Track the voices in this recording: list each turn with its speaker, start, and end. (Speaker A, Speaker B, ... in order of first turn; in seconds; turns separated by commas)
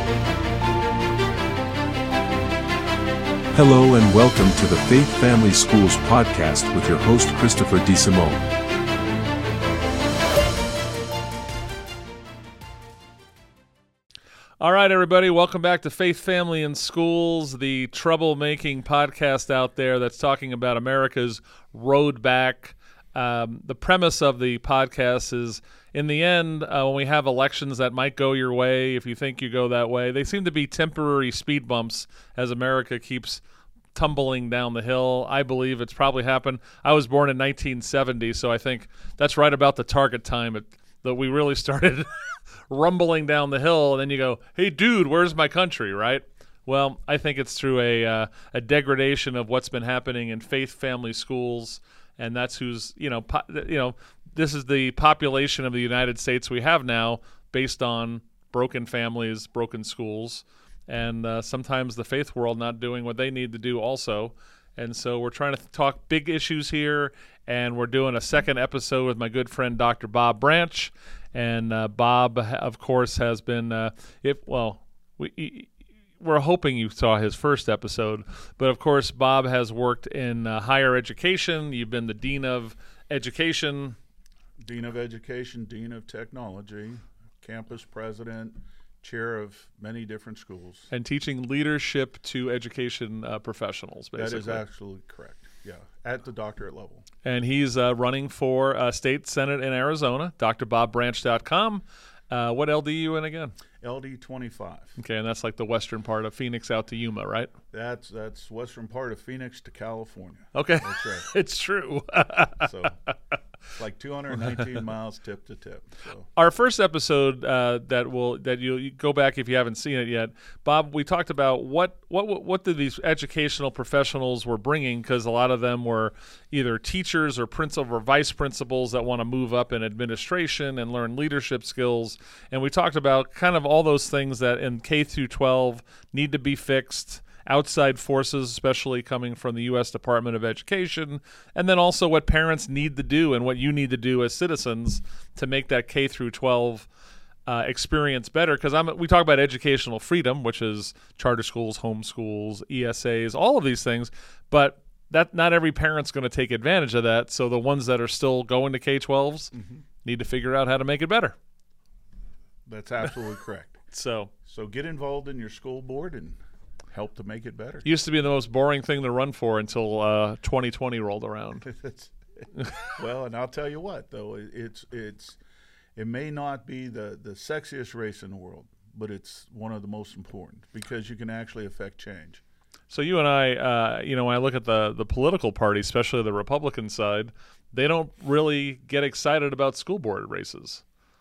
Speaker A: 3.5-8.4, Speaker B: 14.6-33.4, Speaker B: 33.9-84.0, Speaker C: 84.6-90.9, Speaker B: 90.9-94.6, Speaker C: 94.2-97.1, Speaker B: 97.2-103.6, Speaker C: 103.8-105.0, Speaker B: 105.0-107.5, Speaker C: 107.7-111.3, Speaker B: 110.5-112.8, Speaker C: 112.6-113.0, Speaker C: 113.8-116.2, Speaker B: 116.3-146.9, Speaker B: 147.5-161.4, Speaker C: 159.5-159.8, Speaker C: 162.7-163.8, Speaker B: 163.9-164.3, Speaker C: 164.4-166.4, Speaker C: 166.9-167.9, Speaker B: 167.8-171.7, Speaker C: 171.7-175.4, Speaker C: 176.0-182.4, Speaker B: 182.9-190.8